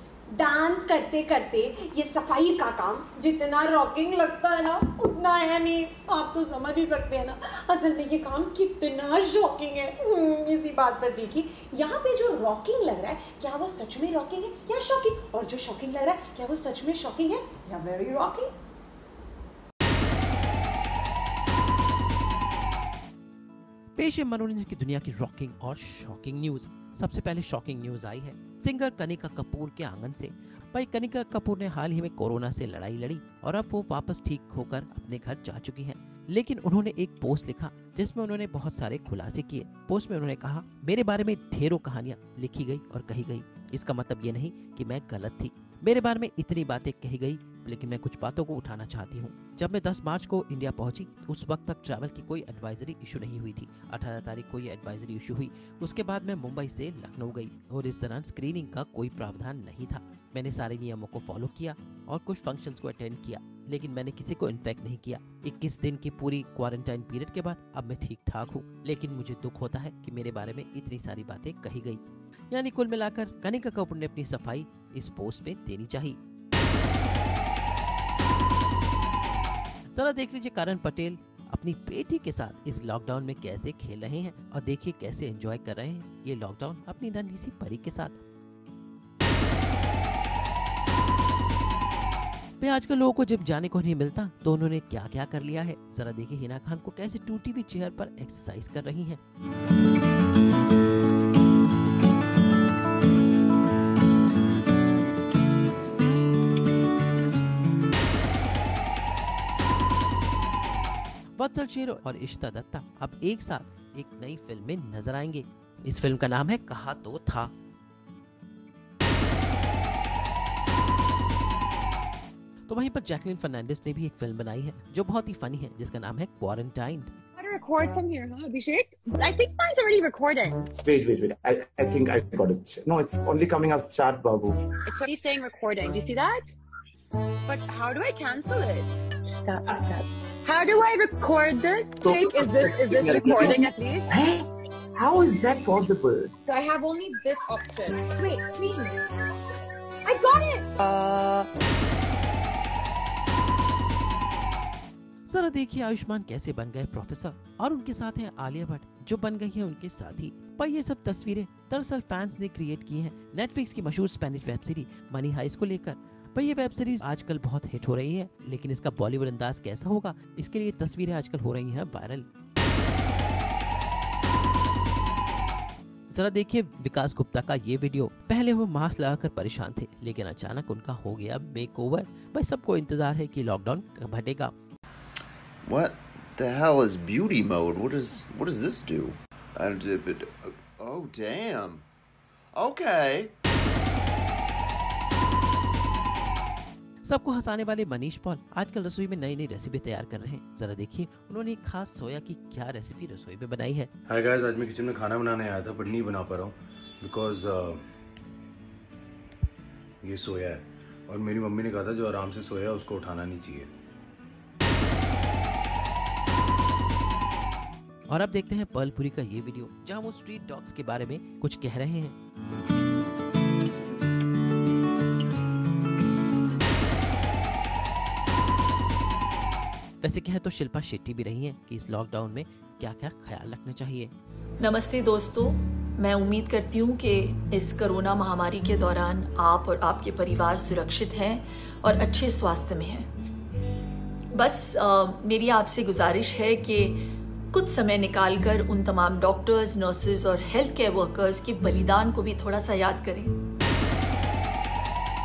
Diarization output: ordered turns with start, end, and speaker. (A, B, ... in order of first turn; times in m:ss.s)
0:00.3-0:18.5 A
0:24.0-1:16.2 B
1:19.9-1:28.2 B
1:32.6-1:39.2 B
1:51.4-1:57.5 B
2:02.7-2:07.1 B
2:07.4-2:10.7 C
2:10.8-2:14.6 D
2:14.9-2:16.6 C
2:17.5-2:24.1 C
2:22.0-2:26.3 D
2:26.5-2:28.9 C
2:30.1-2:30.7 A
2:30.8-2:31.5 C
2:35.3-2:52.3 B
2:56.1-3:04.5 B
3:05.6-3:11.9 E
3:12.5-3:13.4 E
3:17.0-3:23.9 B
3:24.1-3:27.8 F
3:30.0-3:33.7 F
3:38.1-3:42.2 B
3:50.0-3:54.1 B
3:54.6-4:03.1 G
4:04.4-4:07.0 G
4:07.5-4:13.3 G